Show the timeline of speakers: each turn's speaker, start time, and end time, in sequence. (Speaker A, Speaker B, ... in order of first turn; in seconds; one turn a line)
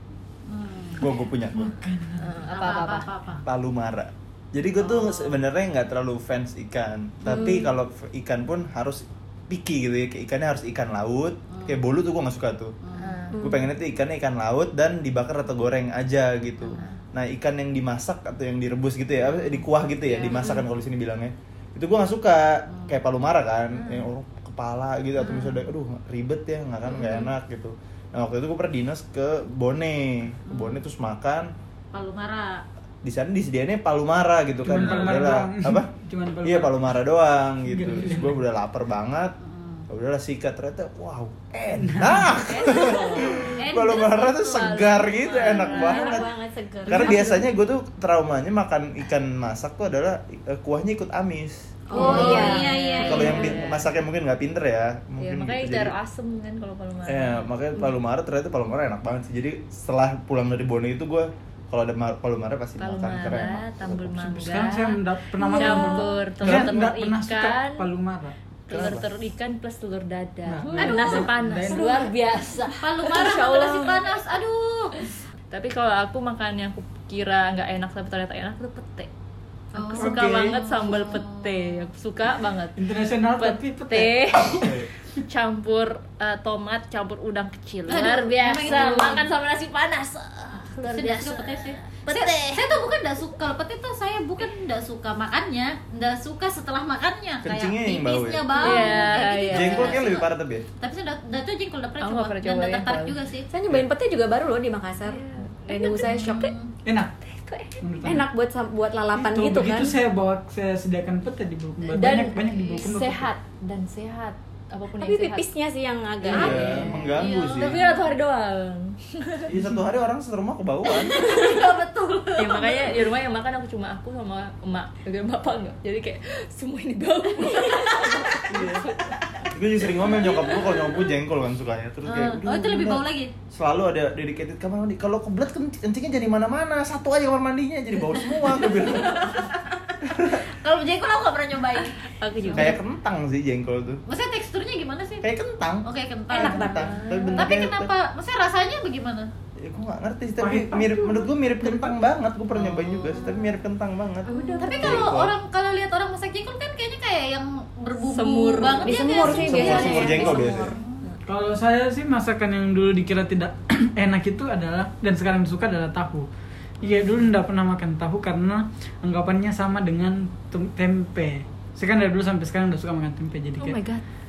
Speaker A: 0.5-1.1
Speaker B: 1.0-1.8
Speaker C: 1.6-2.4
Speaker D: 2.2-3.1
Speaker A: 2.5-3.4
Speaker B: 3.5-12.8
Speaker A: 4.9-5.2
Speaker A: 7.2-7.6
Speaker E: 7.3-7.7
Speaker A: 11.5-11.8
Speaker A: 12.8-13.2
Speaker D: 13.0-13.4
Speaker E: 13.3-13.7
Speaker B: 13.4-31.5
Speaker A: 20.1-20.6
Speaker A: 22.7-22.9
Speaker A: 26.9-27.3
Speaker A: 30.5-30.8
Speaker A: 31.9-32.6
Speaker B: 33.0-35.9
Speaker C: 34.6-36.8
Speaker B: 36.4-39.4
Speaker C: 37.7-38.4
Speaker A: 39.4-39.9
Speaker B: 39.9-46.3
Speaker C: 41.8-42.4
Speaker D: 42.4-43.5
Speaker A: 43.6-44.9
Speaker D: 44.5-46.3
Speaker E: 45.5-47.4
Speaker C: 46.9-47.4
Speaker B: 46.9-52.1
Speaker E: 51.9-53.4
Speaker A: 51.9-53.6
Speaker D: 51.9-53.9
Speaker C: 52.0-52.5
Speaker B: 53.0-55.9
Speaker D: 55.2-57.5
Speaker B: 57.1-64.2
Speaker D: 62.8-67.9
Speaker C: 64.1-68.4
Speaker B: 66.4-66.7
Speaker D: 68.7-74.3
Speaker B: 68.7-69.1
Speaker C: 70.5-72.1
Speaker A: 70.8-71.3
Speaker E: 71.7-72.1
Speaker A: 72.8-75.0
Speaker D: 75.5-79.1
Speaker A: 79.7-81.9
Speaker D: 79.8-82.8
Speaker C: 80.0-80.6
Speaker C: 82.8-84.8
Speaker D: 83.4-84.7
Speaker B: 84.5-84.9
Speaker D: 85.2-92.9
Speaker A: 87.9-89.3
Speaker A: 90.8-103.5
Speaker B: 97.4-98.5
Speaker E: 98.5-99.1
Speaker D: 98.6-100.1
Speaker B: 99.5-100.7
Speaker D: 102.0-103.1
Speaker E: 103.5-106.6
Speaker D: 105.1-106.5
Speaker A: 106.0-106.7
Speaker C: 106.8-107.1
Speaker D: 107.3-107.8
Speaker C: 107.8-108.3
Speaker E: 108.0-110.0
Speaker C: 109.1-113.3
Speaker D: 111.9-115.5
Speaker A: 112.5-112.9
Speaker E: 115.0-117.0
Speaker D: 116.2-116.6
Speaker B: 116.3-117.8
Speaker A: 116.3-118.0
Speaker D: 117.5-119.5
Speaker B: 119.5-121.3
Speaker C: 119.5-119.8
Speaker A: 120.9-123.0
Speaker D: 122.4-128.8
Speaker A: 128.0-128.4
Speaker B: 128.5-128.9
Speaker B: 129.4-139.5
Speaker A: 130.2-130.5
Speaker A: 132.0-133.3
Speaker A: 138.3-142.7
Speaker B: 140.1-140.5
Speaker D: 142.0-142.8
Speaker B: 142.5-144.0
Speaker A: 144.1-145.2
Speaker B: 145.2-147.9
Speaker A: 145.8-149.3
Speaker E: 146.3-147.2
Speaker D: 146.7-147.4
Speaker B: 149.6-155.3
Speaker C: 150.4-151.9
Speaker A: 152.5-153.5
Speaker E: 154.2-155.1
Speaker A: 154.6-161.0
Speaker D: 158.0-160.2
Speaker E: 158.8-160.8
Speaker B: 159.2-160.8
Speaker C: 161.2-166.3
Speaker C: 166.8-173.8
Speaker D: 173.6-174.0